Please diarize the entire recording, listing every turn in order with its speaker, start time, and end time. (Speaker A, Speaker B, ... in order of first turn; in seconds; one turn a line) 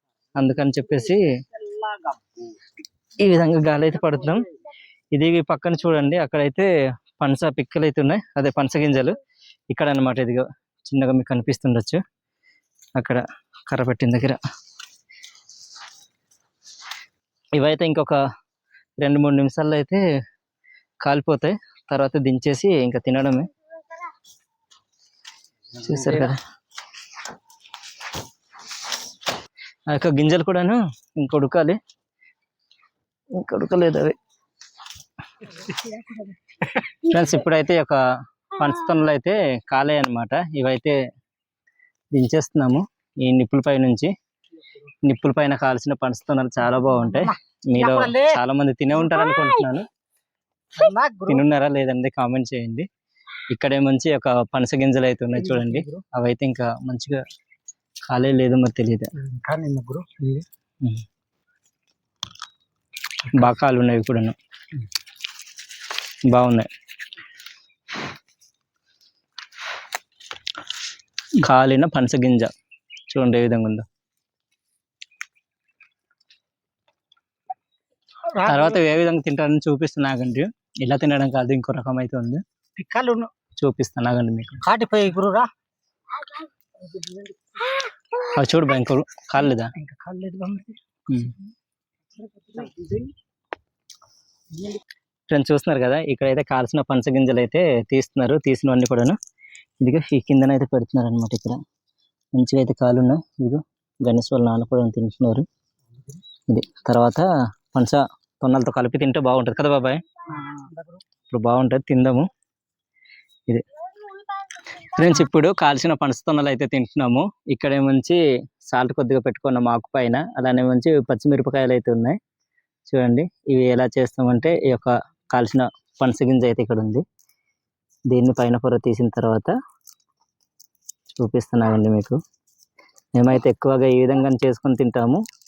Speaker A: 0.4-1.2
Speaker A: 3.2-4.4
Speaker A: 5.1-9.2
Speaker A: 9.7-12.0
Speaker A: 13.0-14.4
Speaker A: 17.6-18.2
Speaker A: 19.0-20.0
Speaker A: 21.0-23.5
Speaker A: 25.8-26.4
Speaker A: 29.9-31.8
Speaker A: 33.4-34.1
Speaker B: 35.9-36.3
Speaker A: 37.0-38.0
Speaker A: 38.5-41.0
Speaker A: 42.1-44.1
Speaker A: 45.0-49.9
Speaker B: 47.2-48.4
Speaker B: 50.8-51.4
Speaker A: 51.3-52.9
Speaker A: 53.5-57.2
Speaker B: 55.4-56.0
Speaker A: 58.1-59.1
Speaker B: 59.2-60.5
Speaker A: 63.3-64.3
Speaker A: 66.3-66.7
Speaker A: 71.3-72.5
Speaker A: 73.1-73.8
Speaker B: 78.3-78.8
Speaker A: 78.4-82.4
Speaker B: 82.8-83.3
Speaker A: 83.6-84.6
Speaker B: 84.6-85.5
Speaker B: 86.8-87.8
Speaker A: 88.3-89.7
Speaker B: 89.4-90.8
Speaker A: 91.1-91.3
Speaker B: 92.2-93.1
Speaker B: 94.5-94.8
Speaker A: 95.3-99.2
Speaker A: 99.8-101.6
Speaker A: 102.3-105.5
Speaker B: 105.9-106.2
Speaker A: 106.5-110.0
Speaker B: 110.3-111.0
Speaker A: 111.3-112.3
Speaker A: 114.7-122.2
Speaker A: 122.9-127.0
Speaker A: 128.1-129.5
Speaker A: 131.1-132.2
Speaker A: 133.2-135.2